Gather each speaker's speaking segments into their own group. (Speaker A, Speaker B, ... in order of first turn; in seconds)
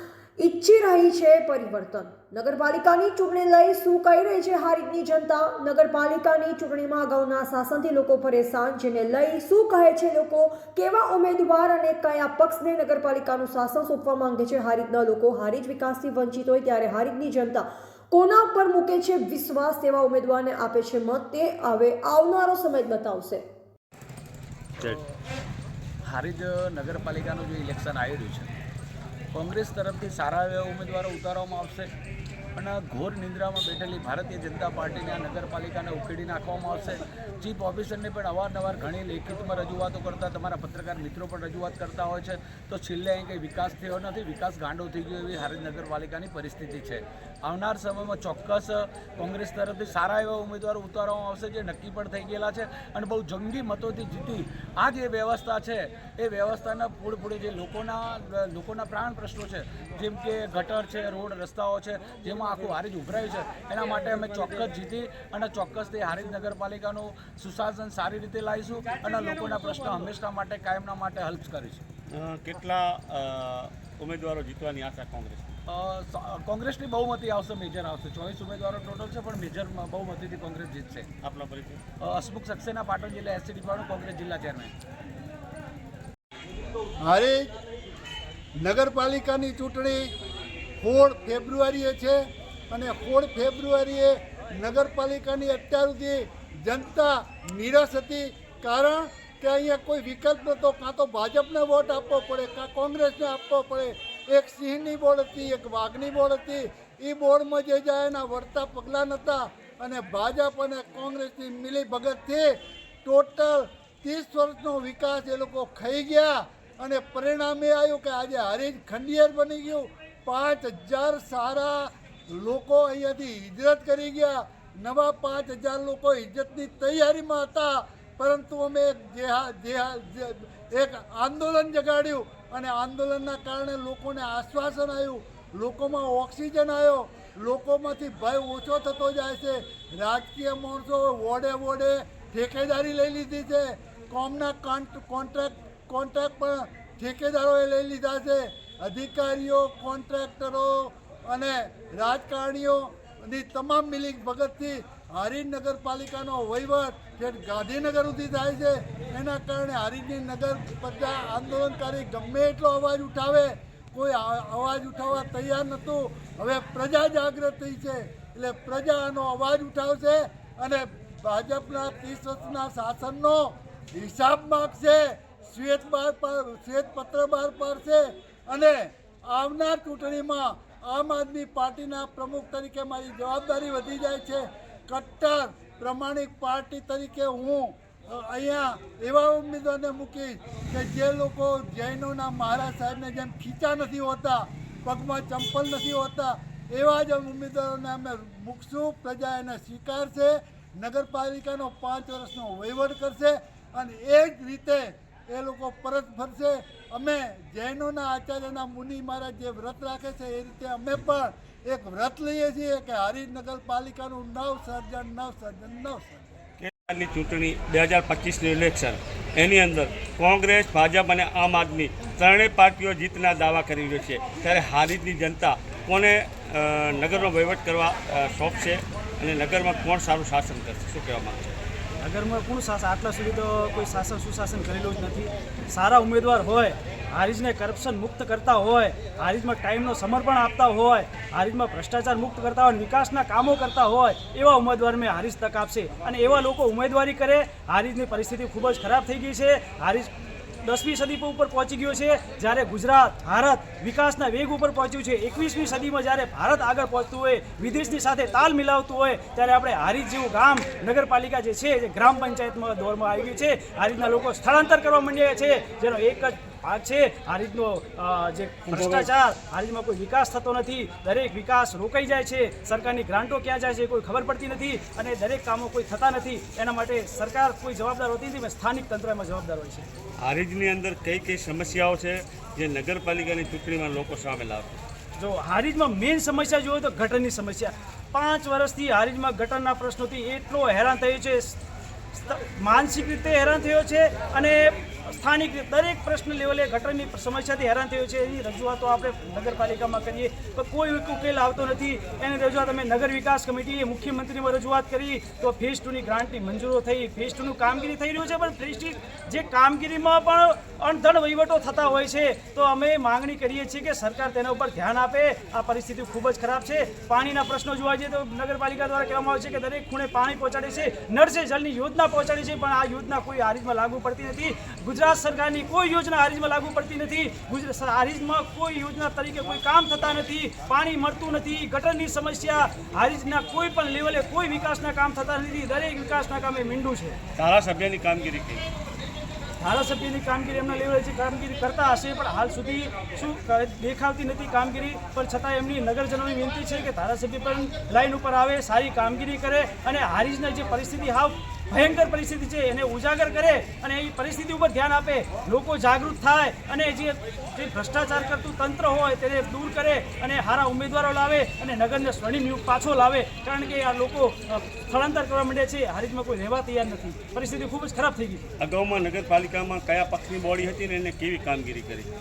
Speaker A: 0.4-23.4
Speaker B: 24.8-25.0, 26.1-28.5, 29.3-31.9, 32.5-71.8, 75.7-81.1, 82.0-84.7
Speaker C: 72.1-75.5, 81.2-81.8, 216.6-231.5, 268.7-269.1, 280.2-284.8, 337.4-338.6, 368.6-372.1
Speaker D: 87.0-87.5, 88.6-90.1, 90.8-216.2
Speaker E: 232.0-250.1, 250.6-279.9, 285.2-291.6, 292.1-337.2, 339.6-368.5